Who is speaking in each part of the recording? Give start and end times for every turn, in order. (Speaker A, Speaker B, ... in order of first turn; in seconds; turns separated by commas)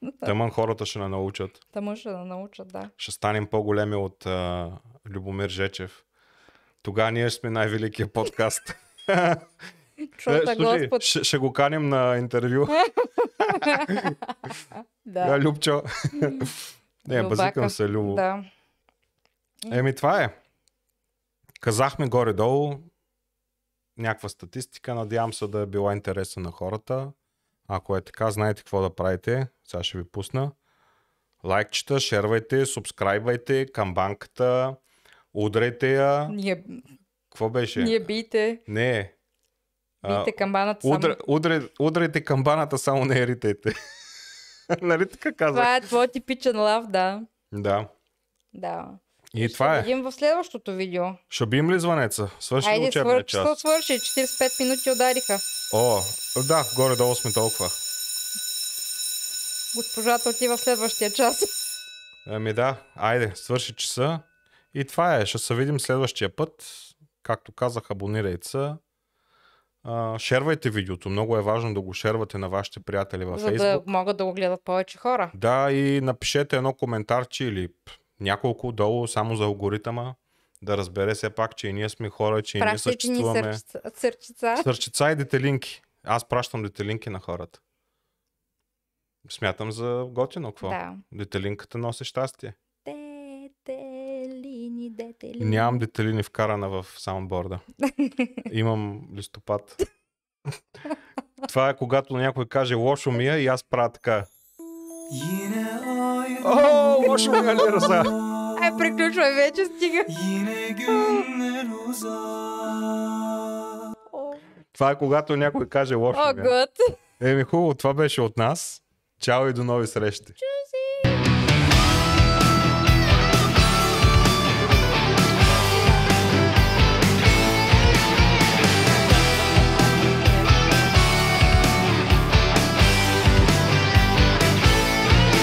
Speaker A: 0.2-1.6, Speaker B: 1.7-2.9, Speaker A: 3.0-6.0, Speaker A: 6.8-9.5, Speaker B: 10.2-11.1, Speaker A: 10.3-12.8, Speaker B: 12.8-14.5, Speaker A: 13.4-14.2, Speaker B: 15.1-15.4, Speaker A: 15.2-18.2, Speaker B: 16.2-16.5, Speaker B: 17.1-18.5, Speaker A: 19.7-20.4, Speaker A: 21.6-22.9, Speaker A: 24.0-27.1, Speaker A: 27.7-30.5, Speaker A: 31.4-34.8, Speaker A: 35.3-36.4, Speaker B: 36.3-36.8, Speaker A: 37.3-38.0, Speaker B: 37.8-38.6, Speaker A: 38.7-39.1, Speaker B: 40.0-41.2, Speaker A: 40.0-43.8, Speaker A: 44.7-45.8, Speaker B: 45.5-47.3, Speaker A: 47.5-47.9, Speaker B: 48.5-51.2, Speaker A: 49.3-49.9, Speaker A: 51.3-53.6, Speaker B: 52.6-55.4, Speaker A: 55.7-57.8, Speaker B: 59.7-61.5, Speaker A: 62.3-68.8, Speaker A: 69.8-73.9, Speaker B: 73.3-75.3, Speaker A: 75.3-83.6, Speaker B: 82.6-84.7, Speaker A: 84.6-87.6, Speaker A: 89.2-92.6, Speaker B: 90.6-91.0, Speaker B: 92.8-95.9, Speaker A: 95.4-97.6, Speaker B: 97.8-98.4, Speaker A: 98.5-99.8, Speaker A: 101.4-104.3, Speaker C: 105.1-107.5, Speaker A: 106.4-108.2, Speaker B: 107.2-107.6, Speaker C: 108.2-108.5, Speaker B: 108.6-110.1, Speaker C: 110.1-113.7, Speaker B: 110.9-111.3, Speaker B: 114.1-114.4, Speaker A: 114.8-116.5, Speaker B: 116.1-117.0, Speaker A: 117.2-120.4, Speaker B: 120.4-121.3, Speaker B: 125.5-126.0, Speaker B: 129.1-130.9